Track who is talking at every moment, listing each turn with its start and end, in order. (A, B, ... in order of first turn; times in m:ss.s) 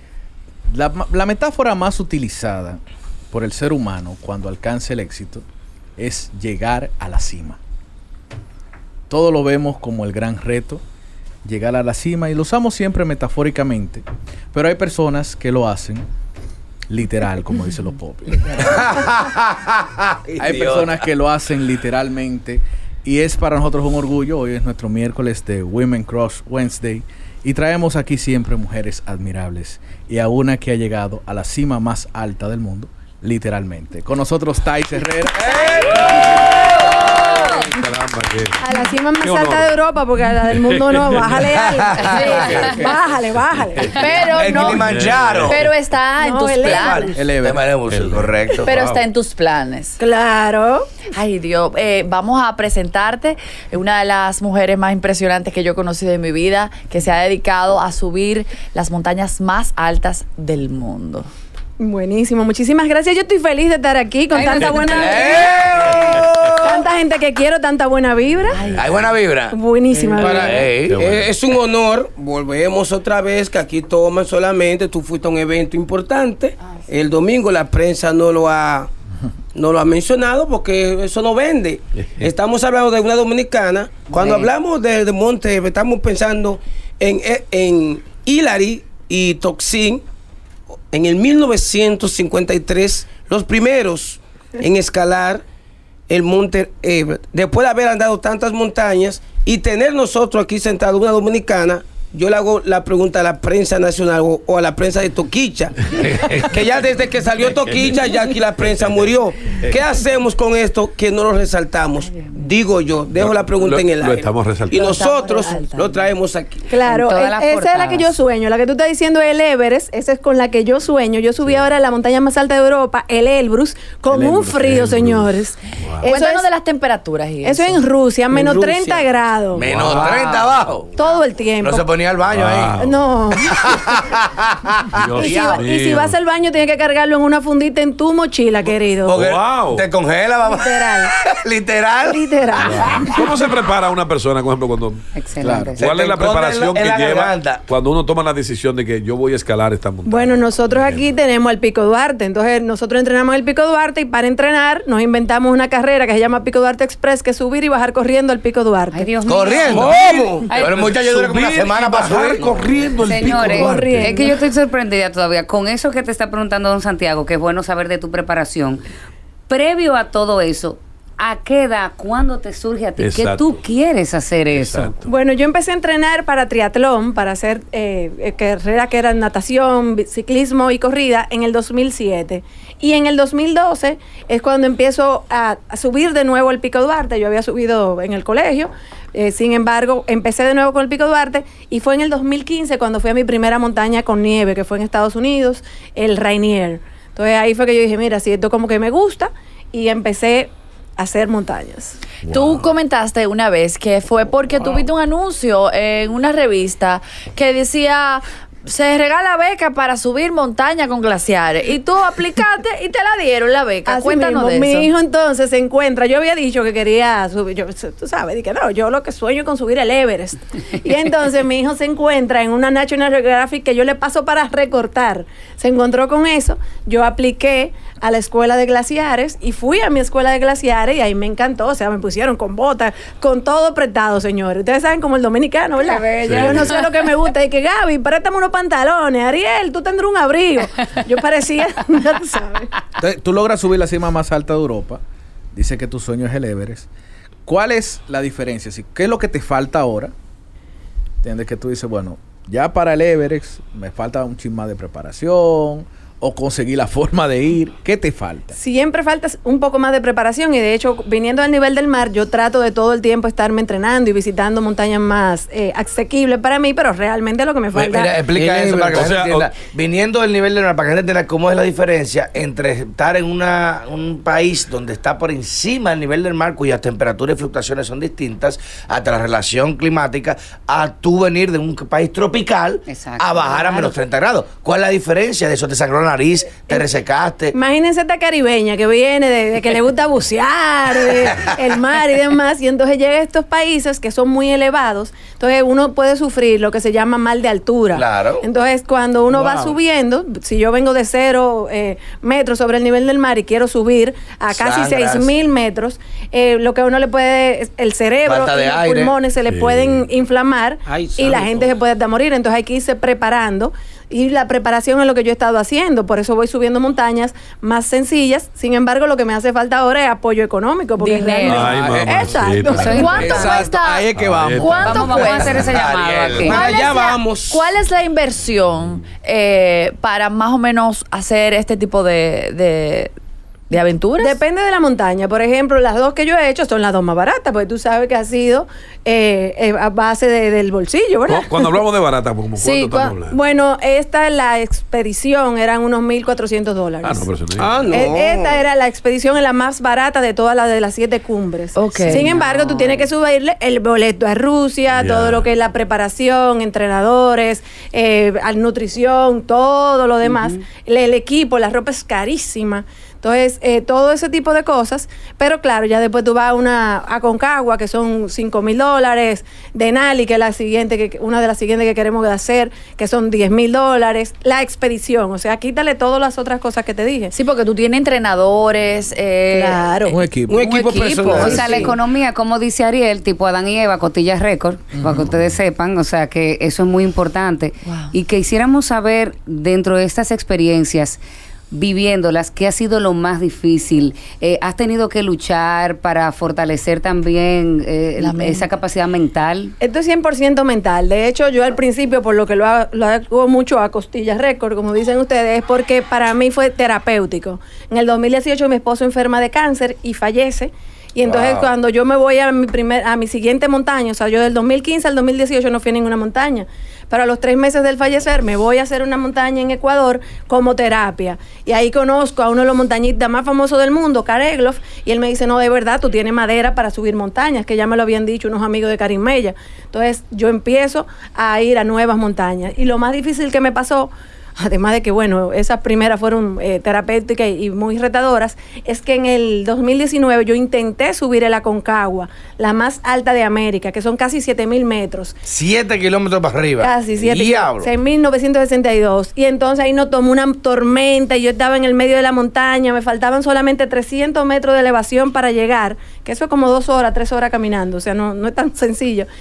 0:00.7-0:05.4 A
0:06.0-0:07.6 A
0:09.1-0:10.8 A
0:11.4-0:16.1 A
0:16.9-0:18.9 A
0:18.6-0:21.0 B
0:20.4-0:36.1 A
0:35.4-0:36.6 B
0:36.9-0:37.6 C
0:37.2-0:38.6 D
0:38.6-0:44.4 E
0:39.2-0:39.8 D
0:40.5-0:41.5 D
0:41.6-0:42.9 B
0:42.0-0:42.6 F
0:43.7-0:45.7 D
0:43.9-0:47.1 F
0:44.3-0:45.7 B
0:46.2-0:47.2 E
0:46.6-0:48.7 B
0:47.2-0:47.7 A
0:47.9-0:49.0 D
0:48.6-0:50.0 F
0:50.0-0:50.9 E
0:51.1-1:01.3 F
1:01.8-1:08.6 E
1:04.3-1:05.7 C
1:04.6-1:04.9 D
1:04.9-1:06.9 B
1:05.8-1:06.4 D
1:08.5-1:08.9 F
1:08.6-1:09.0 D
1:08.8-1:09.5 B
1:09.5-1:10.6 E
1:10.2-1:18.9 G
1:10.2-1:11.2 B
1:10.9-1:11.3 D
1:19.5-1:30.0 G
1:22.0-1:22.3 D
1:30.9-1:35.4 G
1:36.1-1:56.7 G
1:46.0-1:46.5 D
1:53.1-1:55.0 D
1:54.7-1:56.1 F
1:56.7-2:06.4 E
1:56.8-1:58.1 C
2:01.4-2:01.7 D
2:04.1-2:05.1 A
2:04.5-2:06.1 D
2:06.0-2:09.0 F
2:07.4-2:09.7 E
2:09.5-2:10.9 B
2:09.7-2:10.4 D
2:10.9-2:11.9 E
2:11.6-2:12.8 B
2:12.3-2:13.0 D
2:12.8-2:13.7 E
2:13.5-2:15.6 B
2:14.9-2:16.2 D
2:15.2-2:19.2 E
2:19.0-2:23.2 B
2:19.1-2:19.8 D
2:20.4-2:21.1 E
2:22.0-2:23.2 E
2:22.7-2:25.0 D
2:25.1-2:25.8 C
2:25.4-2:25.7 A
2:25.8-2:31.0 D
2:25.8-2:27.6 B
2:30.1-2:39.1 E
2:38.9-2:40.9 C
2:39.2-2:44.0 B
2:39.7-2:40.6 G
2:40.8-2:44.1 D
2:43.0-2:48.8 C
2:43.5-2:44.4 E
2:49.5-2:54.9 C
2:53.0-2:53.6 D
2:54.5-2:55.1 D
2:55.0-3:22.0 E
3:22.2-3:22.7 D
3:22.3-3:34.9 F
3:33.8-4:02.7 E
3:55.9-3:56.8 C
3:56.2-3:56.8 D
4:03.0-4:05.0 A
4:05.5-4:06.9 A
4:07.4-4:10.1 A
4:11.2-4:18.6 A
4:18.5-4:28.2 E
4:27.7-4:47.5 B
4:28.3-4:29.1 G
4:28.9-4:29.6 D
4:42.9-4:43.9 C
4:47.5-5:23.1 E
4:57.9-4:58.4 B
4:59.3-4:59.8 B
5:04.5-5:05.3 B
5:08.2-5:09.1 B
5:09.4-5:10.1 D
5:10.8-5:11.8 G
5:21.0-5:21.7 F
5:21.4-5:23.6 D
5:21.6-5:25.6 A
5:22.7-5:23.5 C
5:22.8-5:25.7 F
5:24.2-5:25.2 D
5:24.8-5:26.6 C
5:25.6-5:26.6 B
5:26.4-5:27.6 G
5:26.4-5:33.1 F
5:33.7-5:34.4 F
5:34.2-5:41.8 E
5:41.3-5:43.4 D
5:42.6-5:43.1 F
5:43.3-5:47.3 E
5:47.0-5:47.8 D
5:47.6-5:48.6 G
5:47.9-6:17.3 E
5:51.8-5:52.4 F
5:52.1-5:53.0 C
5:54.9-5:55.4 D
6:00.2-6:00.6 C
6:17.3-6:19.9 F
6:19.5-6:20.2 E
6:20.1-6:21.6 A
6:20.5-6:21.9 G
6:20.6-6:21.8 F
6:21.3-6:39.7 C
6:24.9-6:25.3 A
6:27.8-6:28.1 F
6:38.2-6:38.7 F
6:39.8-7:25.4 E
6:51.2-6:51.7 B
7:25.4-7:27.9 B
7:26.8-7:39.3 E